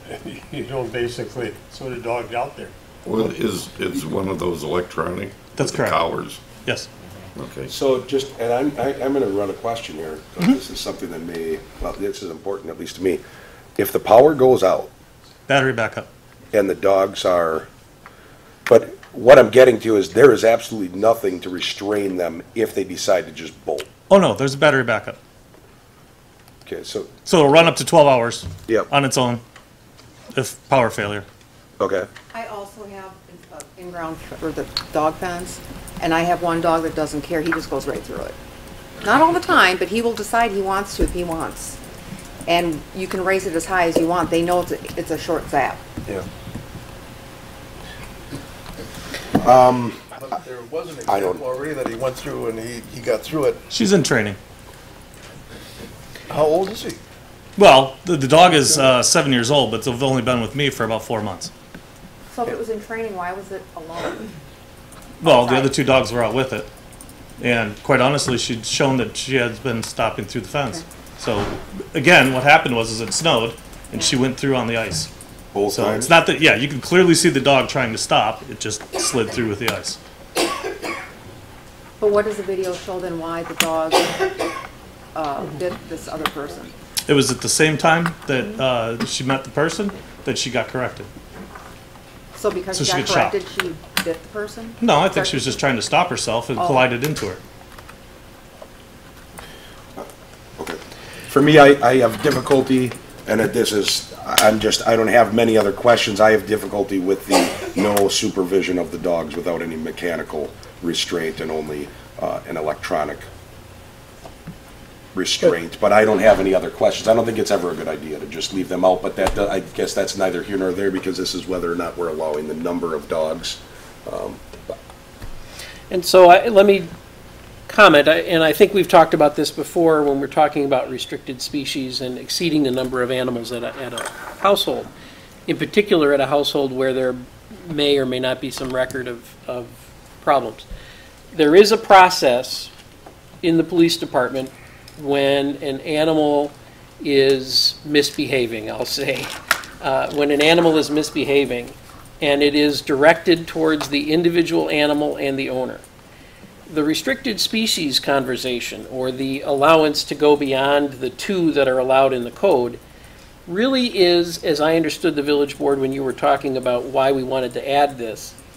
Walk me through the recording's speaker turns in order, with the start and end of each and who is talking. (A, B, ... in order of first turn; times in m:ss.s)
0:00.1-0:02.7 A
0:03.0-0:06.4 B
0:05.6-0:06.0 C
0:06.6-0:06.9 C
0:07.4-0:07.7 B
0:07.7-0:13.2 D
0:13.8-0:14.9 D
0:15.5-0:16.1 C
0:16.5-0:17.7 D
0:18.7-0:23.9 D
0:24.1-0:25.2 C
0:26.6-0:27.1 D
0:27.2-0:29.4 C
0:30.3-0:31.3 C
0:31.8-0:32.1 D
0:32.3-0:38.4 E
0:39.0-0:41.8 E
0:42.5-0:45.8 E
0:49.4-0:50.0 D
0:50.1-0:53.6 F
0:51.1-0:51.4 D
0:53.7-0:54.4 C
0:56.3-0:57.0 F
0:57.6-1:01.5 C
1:02.3-1:04.3 E
1:05.2-1:05.8 E
1:05.2-1:06.7 C
1:07.4-1:15.1 C
1:15.5-1:16.1 D
1:15.7-1:20.0 C
1:22.0-1:24.2 E
1:25.1-1:26.7 E
1:27.1-1:31.1 C
1:28.4-1:28.6 E
1:32.4-1:35.6 E
1:32.7-1:33.4 C
1:34.8-1:37.4 C
1:36.6-1:36.9 E
1:40.6-1:53.3 D
1:55.1-2:04.8 D
2:05.9-2:06.9 G
2:07.7-2:14.9 G
2:15.5-2:20.7 G
2:21.3-2:22.7 G
2:23.4-2:35.8 G
2:36.7-2:42.8 G
2:43.5-2:48.4 G